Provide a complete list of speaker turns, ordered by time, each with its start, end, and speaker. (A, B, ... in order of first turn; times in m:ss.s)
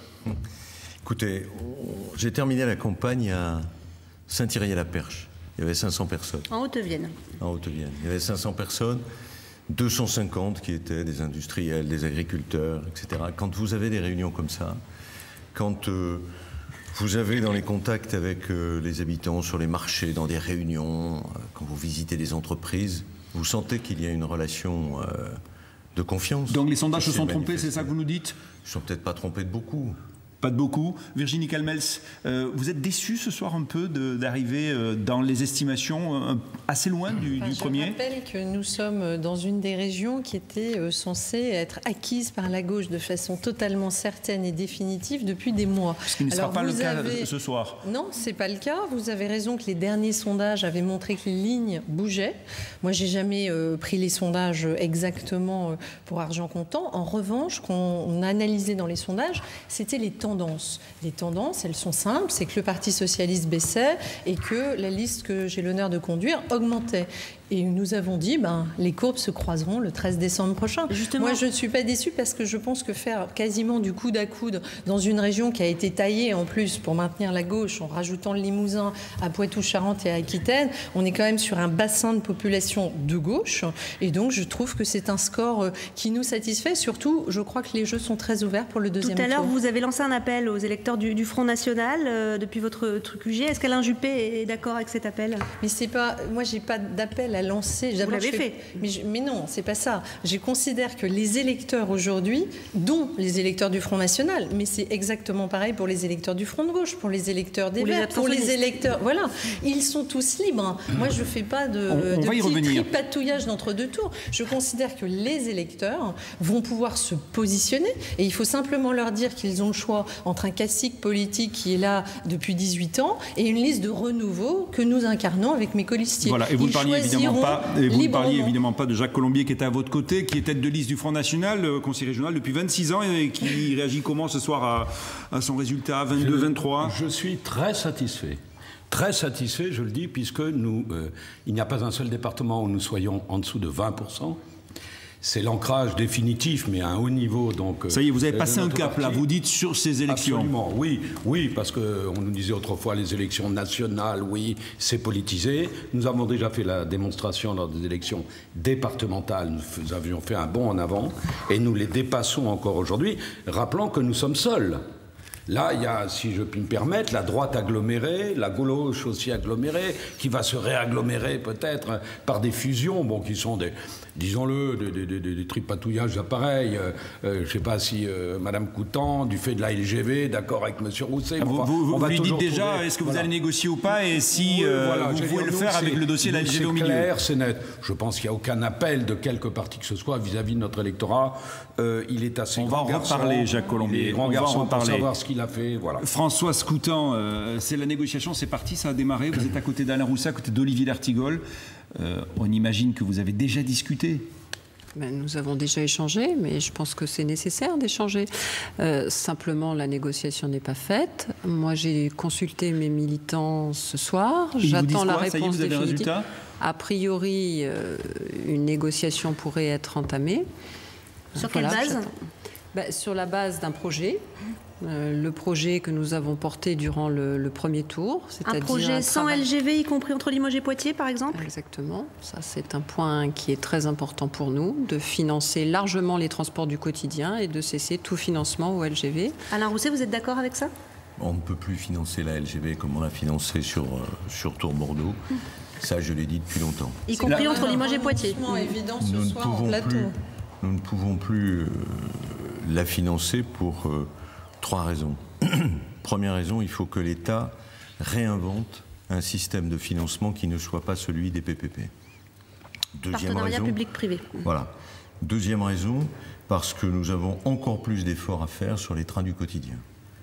0:01.0-0:03.7 A
0:04.3-0:06.5 A
0:06.5-0:07.1 B
0:07.4-0:09.0 A
0:09.7-0:14.8 A
0:15.5-0:16.3 A
0:16.9-0:25.4 A
0:25.9-0:27.9 A
0:26.5-0:28.4 C
0:28.6-0:30.0 A
0:30.4-0:38.0 C
0:37.4-0:47.3 D
0:46.1-0:47.8 C
0:47.8-1:29.5 D
1:10.9-1:11.4 B
1:29.0-1:35.4 B
1:35.6-2:08.6 D
1:38.0-1:38.8 B
1:47.8-1:48.6 B
1:51.9-1:52.9 C
2:06.2-2:17.0 C
2:16.1-2:24.4 E
2:25.2-2:29.2 E
2:27.9-2:30.5 C
2:30.1-2:44.8 E
2:45.5-3:03.3 E
3:01.4-3:07.1 C
3:03.9-3:16.0 E
3:12.6-3:15.1 C
3:16.0-3:21.4 C
3:21.9-3:24.3 C
3:24.9-3:40.4 F
3:34.6-3:36.2 C
3:41.4-3:42.1 B
3:41.4-3:42.1 F
3:42.7-3:44.2 F
3:44.8-3:49.5 F
3:48.4-3:51.4 B
3:51.3-3:59.4 F
3:59.5-4:00.7 B
4:01.2-4:05.2 A
4:05.8-4:07.0 A
4:07.1-4:08.8 B
4:07.1-4:10.1 D
4:09.0-4:21.9 A
4:22.9-4:23.8 A
4:23.1-4:24.5 B
4:24.4-4:29.8 A